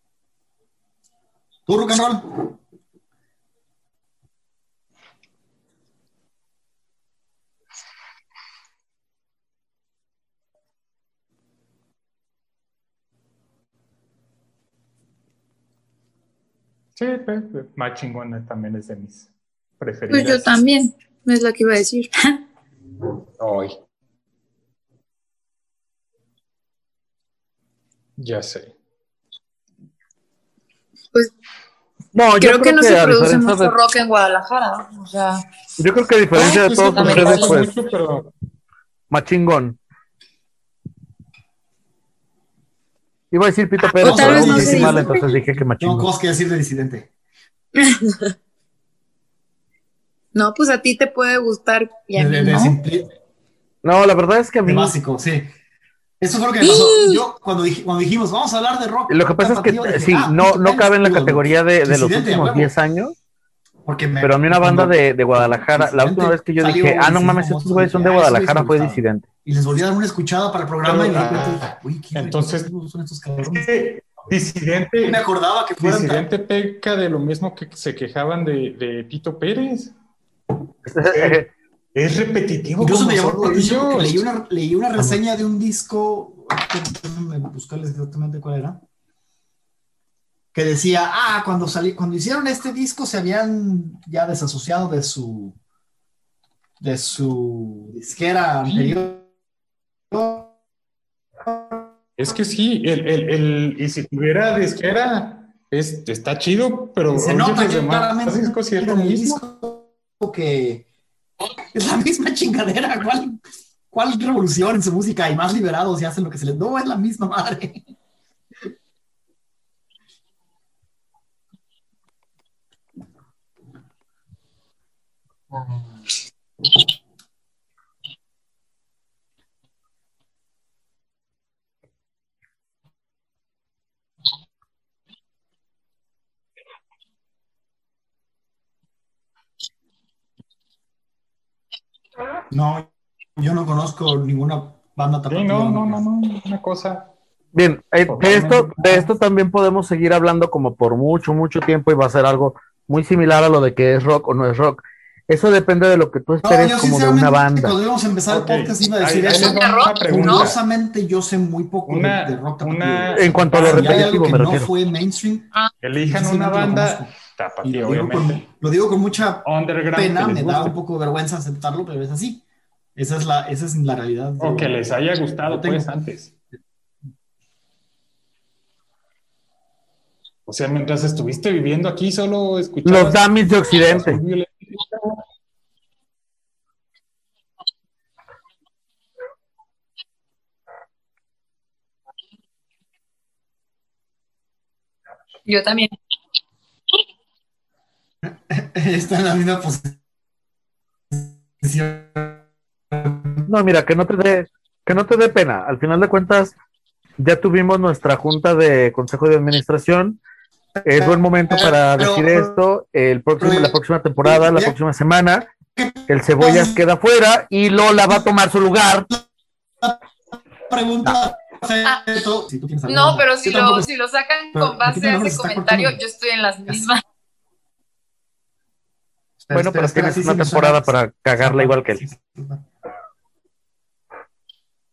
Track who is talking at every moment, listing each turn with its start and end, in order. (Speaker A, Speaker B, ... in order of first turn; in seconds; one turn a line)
Speaker A: 1.7-2.5
Speaker B: 16.9-20.6
Speaker C: 20.1-22.4
Speaker B: 23.4-23.8
Speaker B: 28.2-28.7
Speaker D: 32.1-33.7
Speaker C: 32.4-35.4
Speaker D: 35.8-37.7
Speaker B: 36.3-38.3
Speaker C: 36.9-37.6
Speaker D: 39.1-39.8
Speaker D: 43.3-46.1
Speaker C: 43.8-45.3
Speaker A: 44.0-47.1
Speaker C: 47.7-48.3
Speaker C: 50.3-52.8
Speaker A: 52.1-53.1
Speaker D: 53.8-55.0
Speaker A: 54.6-55.5
Speaker A: 56.2-62.7
Speaker C: 56.6-57.2
Speaker D: 59.1-63.1
Speaker A: 63.8-73.7
Speaker D: 64.2-69.2
Speaker B: 70.8-72.7
Speaker B: 73.4-75.2
Speaker A: 75.0-76.3
Speaker B: 75.8-79.9
Speaker D: 80.8-81.5
Speaker B: 81.1-84.2
Speaker A: 82.8-88.8
Speaker A: 90.5-95.6
Speaker A: 96.8-99.3
Speaker B: 98.7-99.0
Speaker A: 100.1-100.5
Speaker A: 101.5-101.8
Speaker B: 102.2-109.4
Speaker A: 107.1-110.8
Speaker A: 111.7-113.4
Speaker A: 113.9-117.8
Speaker A: 142.5-146.0
Speaker B: 145.3-147.1
Speaker D: 147.5-157.8
Speaker B: 148.1-149.1
Speaker A: 156.4-165.5
Speaker B: 158.3-160.6
Speaker C: 159.3-160.5
Speaker B: 161.8-164.2
Speaker D: 163.1-164.7
Speaker B: 165.8-168.4
Speaker A: 166.0-172.4
Speaker B: 169.4-170.7
Speaker A: 172.9-174.8
Speaker B: 174.4-176.3
Speaker A: 175.4-175.9
Speaker B: 180.4-185.2
Speaker D: 182.8-184.2
Speaker C: 195.4-195.9
Speaker A: 198.2-200.0
Speaker A: 201.1-203.4
Speaker D: 203.5-206.5
Speaker D: 207.2-210.2
Speaker A: 210.8-212.5
Speaker D: 210.8-215.4
Speaker A: 213.4-214.8
Speaker A: 215.8-216.8
Speaker D: 216.1-219.1
Speaker A: 220.7-223.9
Speaker C: 222.9-227.0
Speaker A: 224.5-226.0
Speaker A: 229.4-232.6
Speaker D: 229.5-232.0